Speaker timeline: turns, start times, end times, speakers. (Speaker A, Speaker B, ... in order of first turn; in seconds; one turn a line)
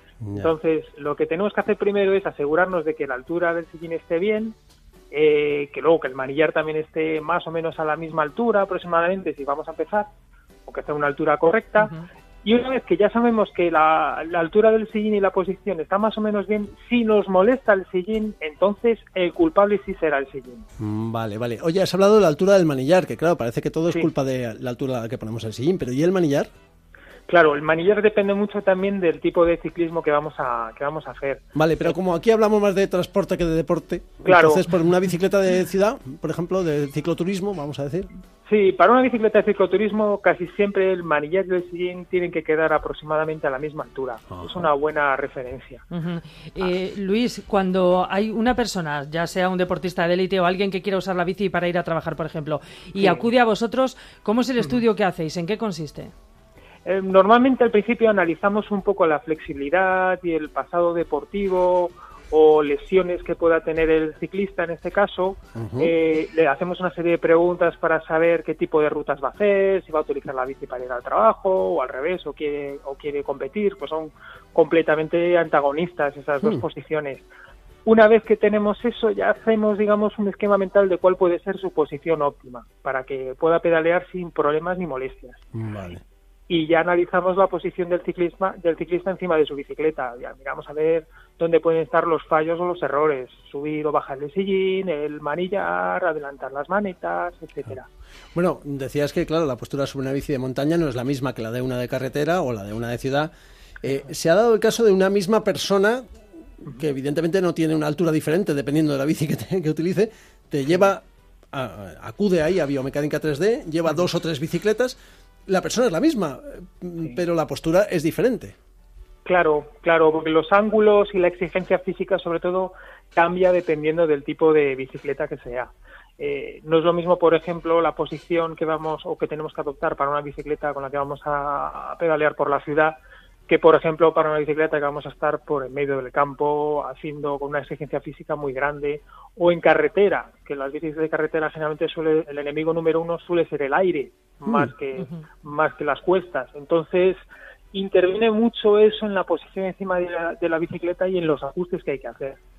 Speaker A: 0.2-0.5
Speaker B: 0.4-4.5
Speaker B: 5.1-10.1
Speaker B: 10.7-20.6
Speaker A: 20.8-26.5
Speaker B: 27.3-31.9
Speaker A: 31.6-38.1
Speaker B: 34.2-34.7
Speaker B: 38.5-45.8
Speaker A: 44.3-44.7
Speaker C: 45.9-56.1
Speaker B: 53.0-53.3
Speaker B: 56.9-77.2
Speaker A: 65.5-65.9
Speaker B: 77.9-85.4
Speaker A: 85.5-86.0
Speaker B: 86.5-97.9
Speaker A: 98.3-103.3
Speaker A: 103.8-106.0
Speaker A: 106.6-118.5
Speaker B: 119.3-133.0
Speaker B: 133.5-152.4
Speaker A: 144.4-144.7
Speaker C: 144.9-145.3